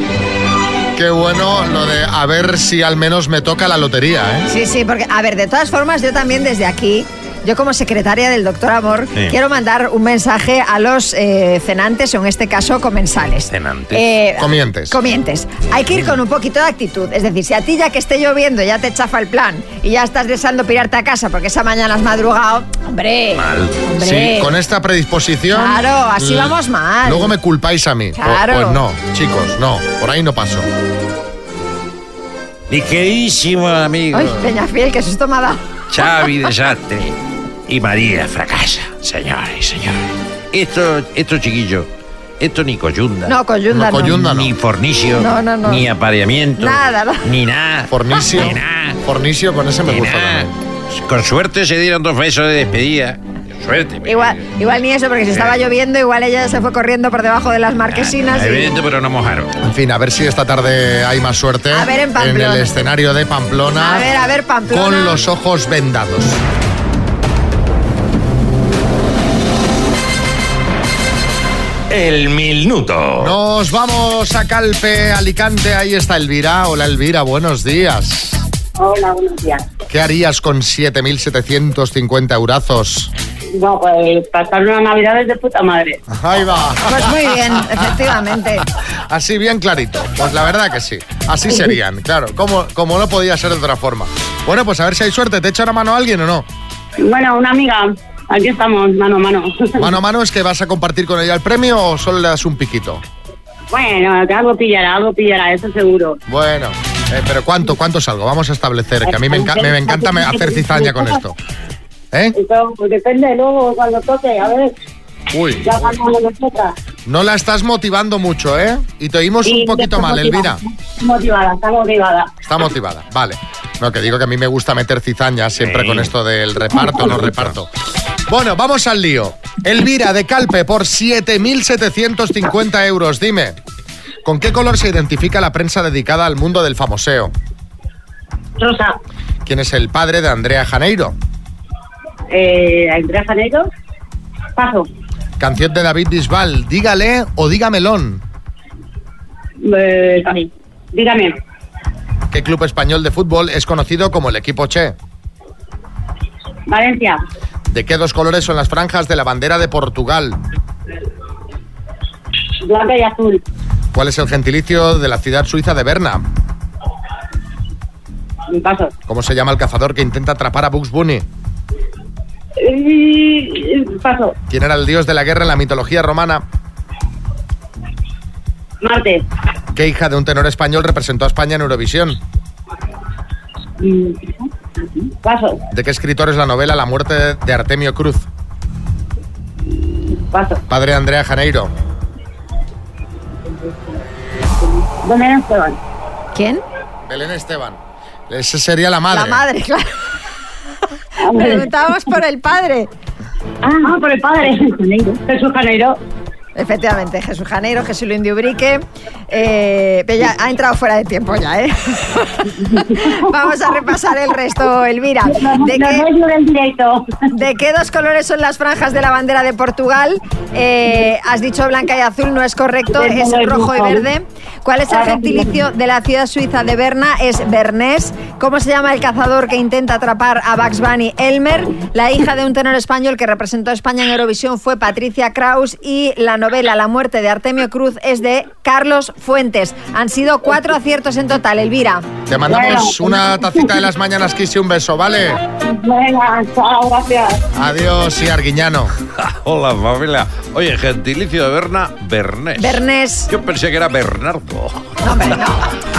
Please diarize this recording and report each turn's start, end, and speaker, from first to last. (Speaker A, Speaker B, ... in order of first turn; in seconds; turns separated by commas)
Speaker A: 0.9-4.5, Speaker B: 4.5-24.5, Speaker C: 13.5-14.0, Speaker A: 14.4-15.0, Speaker C: 23.4-23.8, Speaker A: 24.0-30.7, Speaker B: 25.5-27.3, Speaker B: 28.1-28.8, Speaker C: 32.7-34.3, Speaker B: 34.1-35.6, Speaker C: 35.9-37.0, Speaker C: 37.7-40.0, Speaker C: 40.5-41.9, Speaker C: 42.4-43.3, Speaker B: 43.2-44.2, Speaker A: 43.7-44.5, Speaker C: 44.2-46.8, Speaker B: 45.2-45.9, Speaker B: 46.6-47.2, Speaker C: 47.3-47.9, Speaker A: 47.9-50.5, Speaker C: 48.4-48.9, Speaker C: 49.9-50.4, Speaker C: 50.9-54.4, Speaker B: 54.0-58.7, Speaker C: 58.4-59.5, Speaker A: 59.6-64.1, Speaker B: 61.7-62.7, Speaker B: 63.8-65.2, Speaker A: 64.7-66.4, Speaker C: 71.9-73.3, Speaker A: 73.2-78.4, Speaker D: 78.8-79.6, Speaker A: 79.9-83.1, Speaker D: 83.6-86.0, Speaker A: 86.1-87.6, Speaker B: 86.9-88.7, Speaker A: 89.1-96.5, Speaker D: 97.0-99.9, Speaker A: 99.8-103.0, Speaker D: 103.7-106.2, Speaker A: 106.3-111.3, Speaker D: 109.0-111.2, Speaker D: 112.3-114.7, Speaker A: 115.3-115.8, Speaker D: 115.6-116.7, Speaker A: 117.0-120.6, Speaker D: 119.4-122.3, Speaker A: 122.4-127.7, Speaker C: 125.7-126.0, Speaker A: 128.3-133.6, Speaker A: 134.2-137.3, Speaker D: 138.6-138.9, Speaker A: 139.4-141.2, Speaker D: 142.3-143.7, Speaker D: 144.6-144.9, Speaker A: 145.4-148.2, Speaker D: 149.6-151.4, Speaker A: 152.3-154.9, Speaker D: 156.7-157.2, Speaker A: 157.7-160.4, Speaker D: 162.6-163.4, Speaker A: 163.9-166.2, Speaker D: 168.5-168.9, Speaker A: 169.1-171.2, Speaker D: 172.6-174.3, Speaker A: 174.5-176.4, Speaker D: 178.8-179.2, Speaker A: 179.7-182.2, Speaker D: 183.8-184.4, Speaker D: 185.0-185.6, Speaker A: 185.7-188.3, Speaker D: 190.3-190.6, Speaker A: 190.7-191.7, Speaker D: 195.0-195.8, Speaker B: 196.3-196.6, Speaker A: 197.0-199.4, Speaker B: 199.1-199.8, Speaker D: 201.3-201.7, Speaker B: 201.3-202.9, Speaker D: 203.6-206.0, Speaker B: 206.6-212.4, Speaker B: 213.0-216.1, Speaker D: 215.3-217.1, Speaker B: 217.3-242.1, Speaker D: 222.9-224.0, Speaker D: 224.9-225.5, Speaker A: 242.3-245.4, Speaker D: 242.5-243.6, Speaker D: 245.6-247.4, Speaker A: 247.5-248.9, Speaker C: 249.3-254.8, Speaker B: 252.6-253.3, Speaker B: 255.0-255.6